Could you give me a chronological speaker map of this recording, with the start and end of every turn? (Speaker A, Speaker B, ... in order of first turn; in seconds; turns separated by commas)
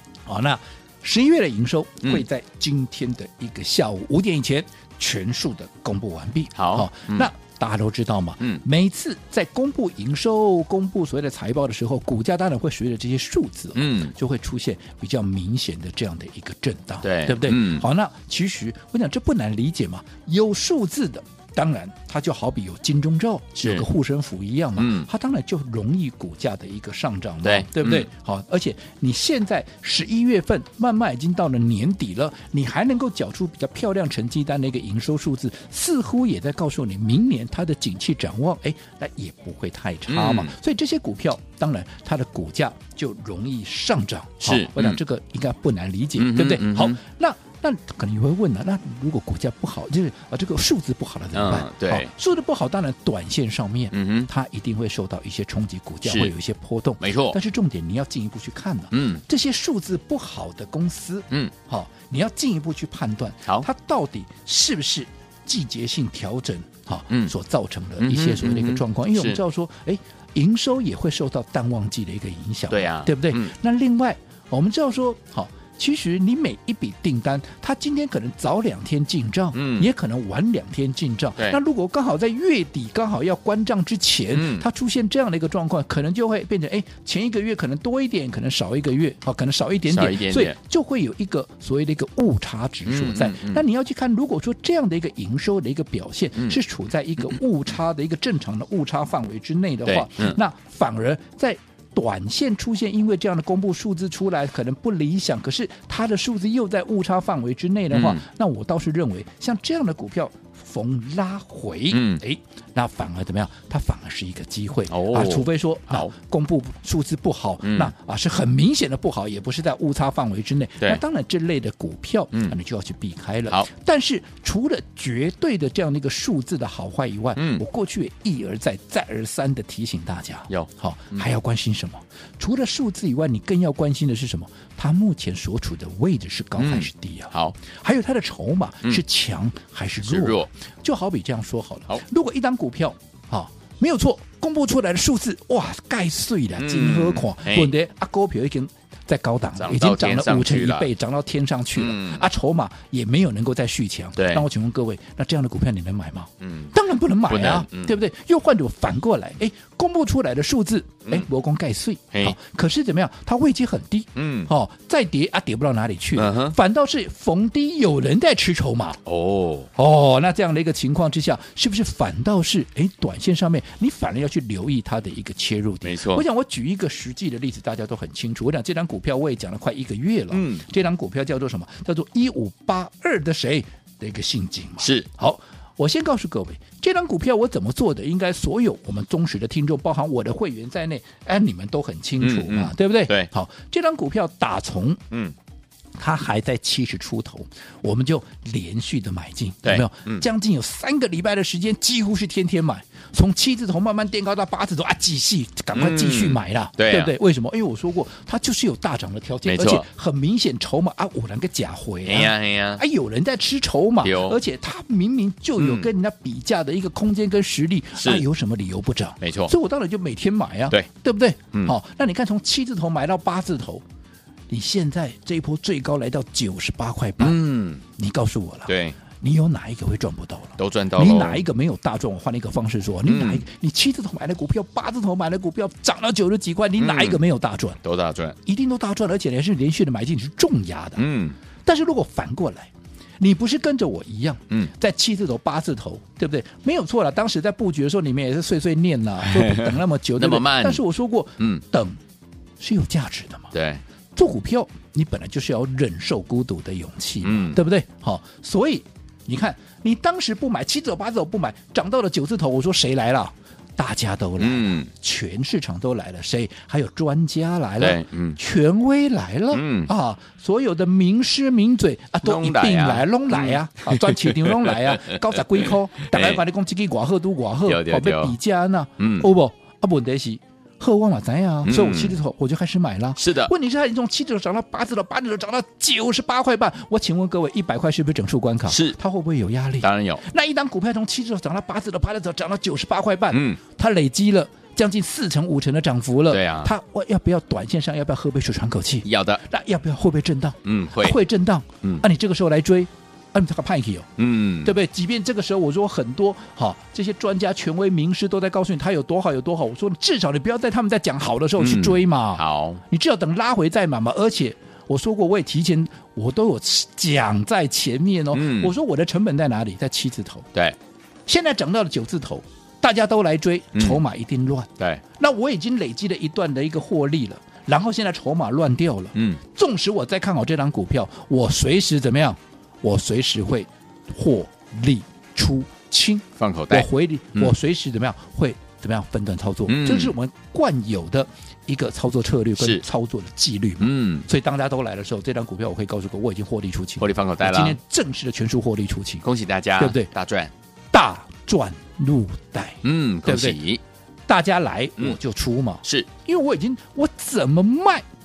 Speaker A: 0.3-169.0, Speaker B: 6.6-7.3, Speaker B: 13.8-14.1, Speaker B: 17.0-17.9, Speaker B: 23.6-23.9, Speaker B: 24.8-25.1, Speaker B: 27.4-28.1, Speaker B: 40.1-40.5, Speaker B: 44.4-45.0, Speaker B: 46.2-47.0, Speaker B: 51.3-52.1, Speaker B: 53.9-54.3, Speaker B: 56.0-56.3, Speaker B: 57.0-57.4, Speaker B: 58.9-59.2, Speaker B: 68.0-69.4, Speaker B: 72.7-73.5, Speaker B: 79.5-79.9, Speaker B: 84.3-84.7, Speaker B: 89.9-90.5, Speaker B: 92.9-93.6, Speaker B: 99.9-100.4, Speaker B: 107.9-108.2, Speaker B: 111.9-112.2, Speaker B: 114.9-116.1, Speaker B: 117.6-117.9, Speaker B: 127.4-127.6, Speaker B: 130.5-131.2, Speaker B: 136.6-137.6, Speaker B: 140.0-140.5, Speaker B: 146.6-147.7, Speaker B: 149.6-150.9, Speaker B: 151.8-152.2, Speaker B: 154.2-154.4, Speaker B: 156.4-156.7, Speaker B: 157.3-157.9, Speaker B: 164.2-164.5, Speaker B: 166.2-166.6, Speaker B: 169.1-169.7, Speaker A: 169.8-195.0, Speaker B: 175.8-176.2, Speaker B: 180.3-180.7, Speaker B: 184.8-185.1, Speaker B: 192.2-193.3, Speaker A: 196.0-223.8, Speaker B: 199.6-200.2, Speaker B: 205.7-207.1, Speaker B: 209.5-209.8, Speaker B: 212.1-212.8, Speaker B: 214.0-214.4, Speaker B: 215.6-215.9, Speaker B: 218.0-218.2, Speaker B: 219.2-219.5, Speaker A: 224.5-237.8, Speaker B: 227.2-227.8, Speaker B: 228.7-229.0, Speaker B: 230.6-231.4, Speaker B: 233.1-233.4, Speaker B: 236.8-237.2, Speaker B: 237.8-238.4, Speaker A: 238.4-241.1, Speaker B: 241.0-241.4, Speaker A: 241.7-252.0, Speaker B: 249.3-250.8, Speaker A: 252.6-253.5, Speaker B: 253.5-253.8, Speaker A: 254.2-304.1, Speaker B: 257.2-257.6, Speaker B: 264.4-264.9, Speaker B: 267.8-268.4, Speaker B: 269.5-269.9, Speaker B: 272.2-276.4, Speaker B: 277.7-278.4, Speaker B: 279.0-279.3, Speaker B: 281.6-282.2, Speaker B: 283.2-283.5, Speaker B: 288.7-289.0, Speaker B: 289.8-290.2, Speaker B: 293.3-293.6, Speaker B: 296.3-296.7, Speaker B: 299.0-299.4, Speaker B: 300.6-301.2, Speaker B: 304.2-304.7, Speaker A: 304.6-320.5, Speaker B: 311.6-312.8, Speaker B: 318.3-318.7, Speaker A: 321.3-349.2, Speaker B: 323.8-324.0, Speaker B: 329.1-329.4, Speaker B: 336.4-337.6, Speaker B: 339.7-340.1, Speaker B: 342.6-342.8, Speaker B: 343.8-344.3, Speaker B: 347.0-347.8, Speaker B: 349.2-350.5, Speaker A: 349.8-350.1, Speaker A: 350.9-353.6, Speaker B: 352.8-353.8, Speaker A: 354.3-358.0, Speaker B: 355.8-356.1